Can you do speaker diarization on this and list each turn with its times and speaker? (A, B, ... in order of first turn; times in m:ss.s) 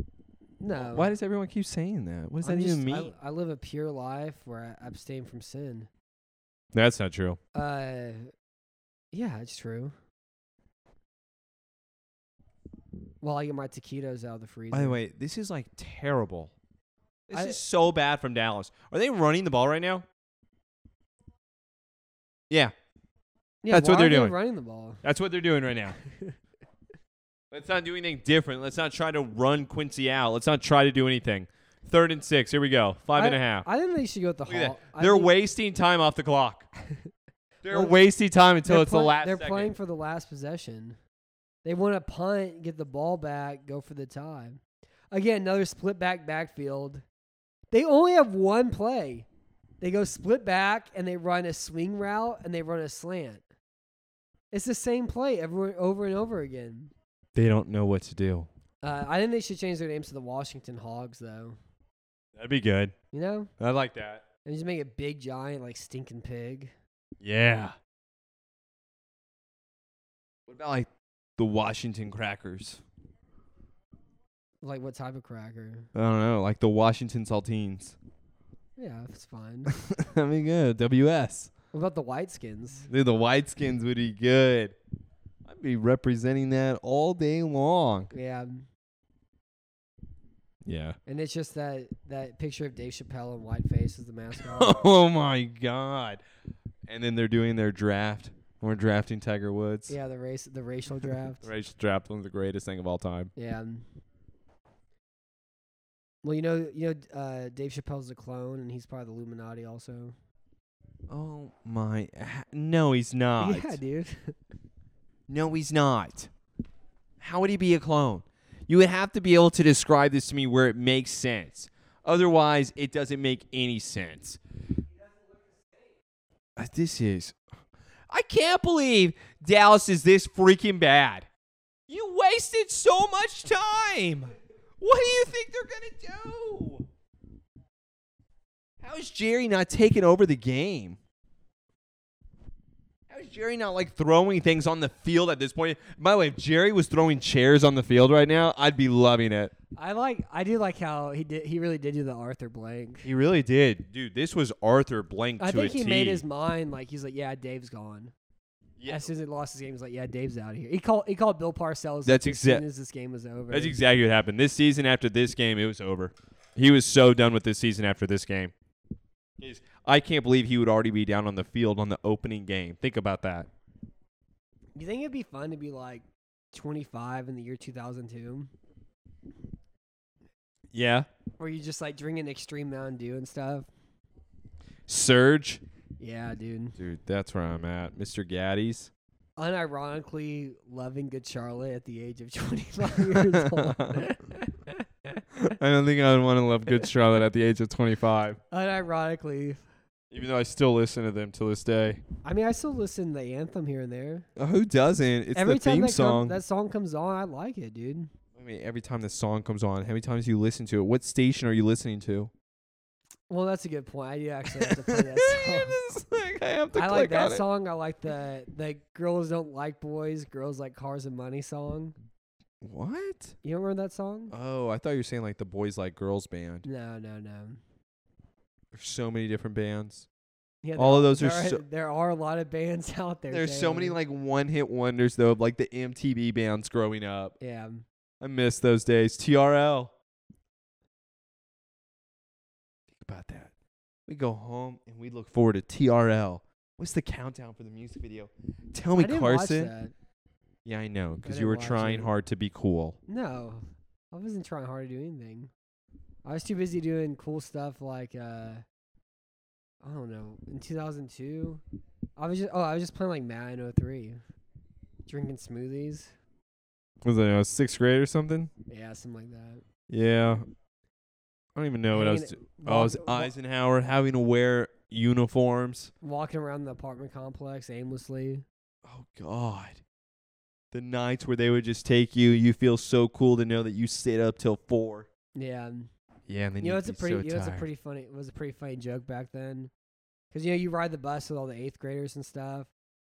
0:00.6-0:01.1 A
0:00.7-0:03.1 B
0:02.4-0:05.9 A
0:06.7-0:07.4 B
0:07.6-0:08.3 A
0:09.1-0:09.9 A
0:13.2-0:15.0 A
0:14.7-0:16.5 B
0:17.3-0:20.0 B
0:17.3-0:17.6 A
0:23.6-0:25.0 A
0:23.7-0:24.4 B
0:25.0-0:26.0 B
0:26.1-0:26.4 A
0:27.5-0:33.7 B
0:33.2-0:35.3 A
0:34.5-0:36.7 B
0:37.6-0:39.7 B
0:37.7-0:38.0 A
0:38.6-0:41.0 A
0:41.6-0:47.0 A
0:47.7-0:49.3 A
0:49.8-0:53.4 A
0:54.5-0:56.9 A
0:57.4-0:58.5 B
0:58.8-1:01.6 A
1:02.4-1:02.9 B
1:03.1-1:03.5 A
1:03.6-1:04.2 B
1:04.5-1:06.7 A
1:07.2-1:07.8 B
1:10.5-1:12.8 B
1:14.6-1:15.9 A
1:15.9-1:18.0 B
1:18.8-1:19.7 A
1:19.7-1:21.5 B
1:21.7-1:22.9 A
1:22.9-1:24.8 B
1:25.4-1:28.1 B
1:28.1-1:28.7 A
1:30.6-1:31.0 B
1:31.1-1:34.8 A
1:34.4-1:36.2 B
1:36.9-1:40.0 B
1:39.9-1:41.4 A
1:41.0-1:43.3 B
1:43.4-1:43.9 A
1:46.2-1:50.2 A
1:51.1-1:53.8 B
1:53.4-1:54.4 A
1:55.3-1:56.3 B
1:57.2-2:04.4 B
2:06.6-2:07.4 B
2:08.1-2:11.3 B
2:11.9-2:16.9 B
2:18.8-2:21.0 B
2:23.1-2:29.5 B
2:29.8-2:33.1 A
2:33.0-2:36.2 B
2:35.4-2:38.1 A
2:38.8-2:39.1 B
2:38.9-2:43.8 A
2:42.0-2:42.6 B
2:43.5-2:48.5 B
2:49.4-2:53.5 B
2:54.8-2:58.5 A
3:00.7-3:01.1 B
3:01.4-3:03.7 A
3:04.9-3:05.6 B
3:06.0-3:06.8 A
3:06.8-3:08.9 B
3:09.4-3:15.2 A
3:13.0-3:14.1 B
3:15.4-3:18.4 B
3:18.5-3:19.6 A
3:20.1-3:22.0 B
3:22.2-3:24.3 A
3:24.4-3:26.4 B
3:25.4-3:28.1 A
3:28.4-3:32.3 B
3:33.3-3:35.8 A
3:34.5-3:37.4 B
3:36.7-3:42.0 A
3:42.6-3:43.4 B
3:43.4-3:44.3 A
3:44.3-3:46.6 B
3:46.6-3:47.6 A
3:48.7-3:50.1 B
3:50.6-3:54.0 A
3:50.8-3:51.6 B
3:53.3-3:57.4 B
3:57.4-3:57.8 A
3:58.2-3:59.9 B
4:02.9-4:03.5 B
4:04.1-4:09.7 B
4:09.0-4:09.9 A
4:10.6-4:13.0 B
4:11.2-4:12.1 A
4:13.1-4:15.5 A
4:16.2-4:18.6 A
4:19.8-4:21.6 A
4:22.2-4:24.2 A
4:25.1-4:26.1 A
4:27.0-4:28.5 B
4:28.7-4:29.6 A
4:29.9-4:30.4 B
4:31.6-4:35.9 B
4:31.9-4:33.3 A
4:36.0-4:38.4 A
4:38.8-4:39.8 B
4:40.7-4:45.1 B
4:45.4-4:45.9 A
4:46.3-4:47.7 B
4:46.6-4:49.7 A
4:50.3-4:52.7 A